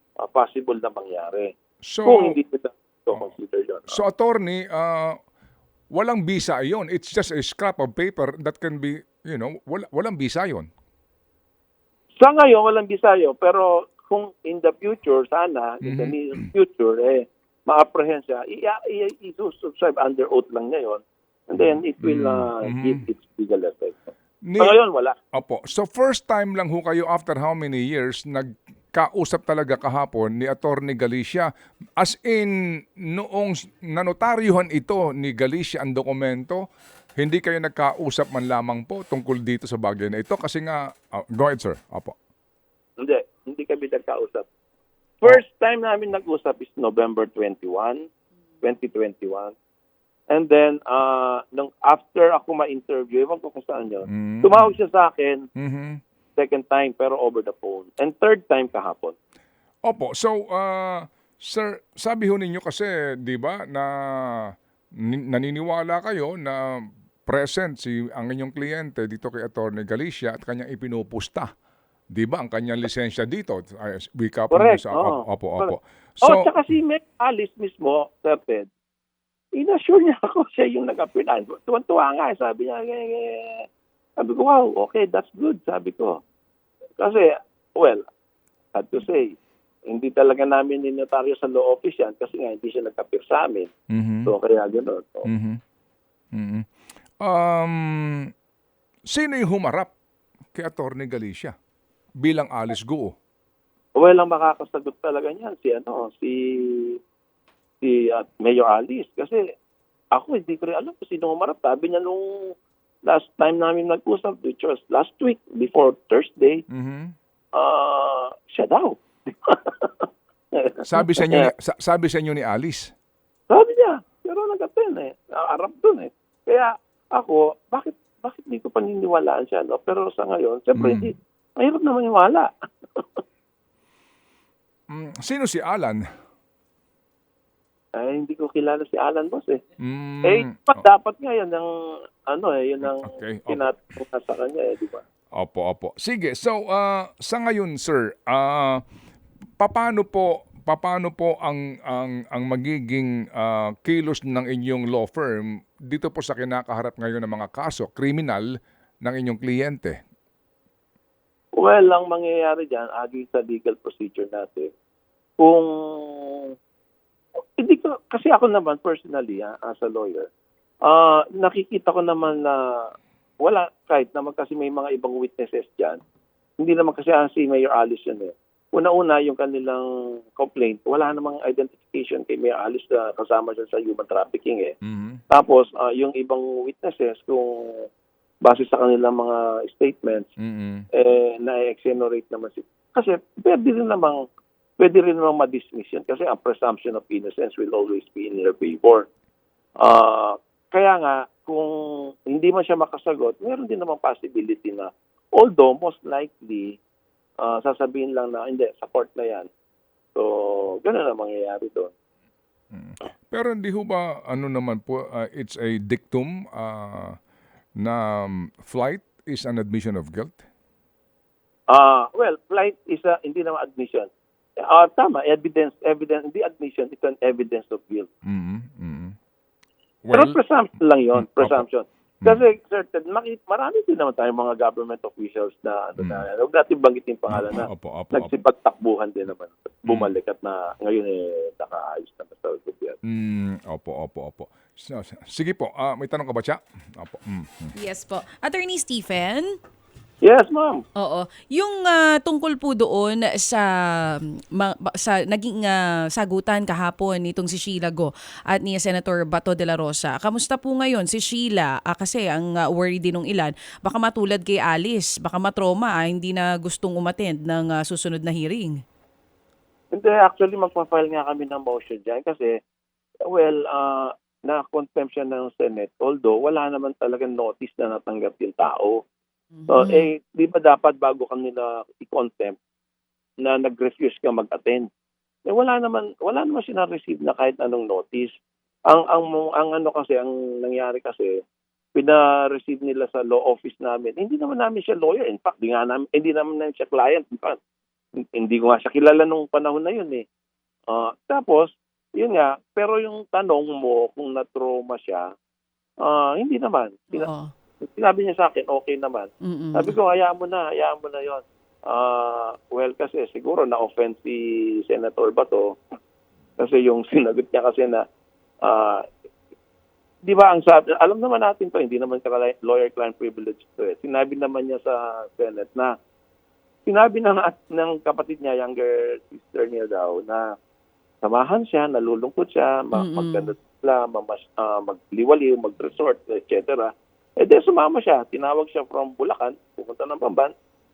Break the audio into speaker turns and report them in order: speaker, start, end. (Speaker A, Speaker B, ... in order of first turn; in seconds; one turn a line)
Speaker A: 0.2-1.5
Speaker B: 1.8-2.4
Speaker A: 2.0-4.0
Speaker B: 3.9-5.2
Speaker B: 5.9-10.7
Speaker A: 12.2-24.0
Speaker B: 15.8-16.4
Speaker B: 21.6-23.0
Speaker B: 24.4-24.7
Speaker A: 24.6-25.2
Speaker B: 25.3-36.6
Speaker B: 37.2-42.1
Speaker A: 43.0-44.5
Speaker A: 45.2-48.0
Speaker A: 48.6-49.5
Speaker A: 50.3-55.5
Speaker B: 54.1-54.7
Speaker B: 55.5-56.0
Speaker A: 56.4-59.1
Speaker B: 59.8-71.5
Speaker B: 72.1-76.5
Speaker A: 74.5-78.7
Speaker A: 79.5-86.2
Speaker A: 87.0-88.0
Speaker A: 88.7-93.7
Speaker B: 93.9-94.3
Speaker A: 94.2-95.3
Speaker B: 95.2-95.6
Speaker B: 96.3-96.7
Speaker B: 97.2-98.3
Speaker B: 99.1-99.9
Speaker B: 100.5-101.5
Speaker B: 102.2-103.2
Speaker A: 104.0-107.0
Speaker A: 107.8-109.5
Speaker A: 110.1-116.6
Speaker B: 116.7-117.1
Speaker A: 117.5-121.5
Speaker B: 120.8-122.9
Speaker A: 123.5-133.2
Speaker B: 130.8-131.1
Speaker B: 134.9-136.0
Speaker A: 137.9-139.6
Speaker B: 139.8-140.8
Speaker A: 140.2-141.7
Speaker A: 142.2-145.0
Speaker B: 142.9-143.7
Speaker B: 145.3-148.8
Speaker B: 149.6-160.0
Speaker A: 161.5-164.7
Speaker A: 165.4-166.5
Speaker A: 167.4-170.3
Speaker A: 170.8-176.0
Speaker A: 176.6-184.7
Speaker B: 184.8-185.2
Speaker A: 185.3-187.9
Speaker A: 188.4-190.3
Speaker B: 190.4-190.8
Speaker A: 190.9-194.2
Speaker A: 194.8-199.1
Speaker A: 199.8-206.8
Speaker A: 207.4-209.5
Speaker A: 210.1-211.9
Speaker B: 212.7-217.2
Speaker B: 217.8-220.4
Speaker A: 221.7-228.1
Speaker B: 228.2-229.2
Speaker B: 230.0-230.4
Speaker A: 230.1-243.0
Speaker B: 231.2-231.6
Speaker B: 236.0-236.2
Speaker B: 237.3-238.3
Speaker B: 239.9-240.1
Speaker B: 243.1-247.7
Speaker C: 247.8-249.6
Speaker A: 250.2-250.8
Speaker C: 250.9-268.8
Speaker A: 269.9-272.6
Speaker A: 273.2-279.0
Speaker C: 279.6-280.1
Speaker A: 279.7-282.6
Speaker A: 283.4-284.9
Speaker A: 285.5-288.3
Speaker A: 288.9-291.4
Speaker A: 291.9-297.6
Speaker A: 298.2-300.2
Speaker A: 300.9-305.3
Speaker A: 306.0-307.3
Speaker C: 307.1-307.5
Speaker A: 307.8-315.8
Speaker C: 309.4-309.9
Speaker A: 316.6-318.1
Speaker A: 318.6-319.1
Speaker A: 320.2-325.9
Speaker A: 326.9-330.5
Speaker A: 331.2-340.5
Speaker C: 332.9-333.5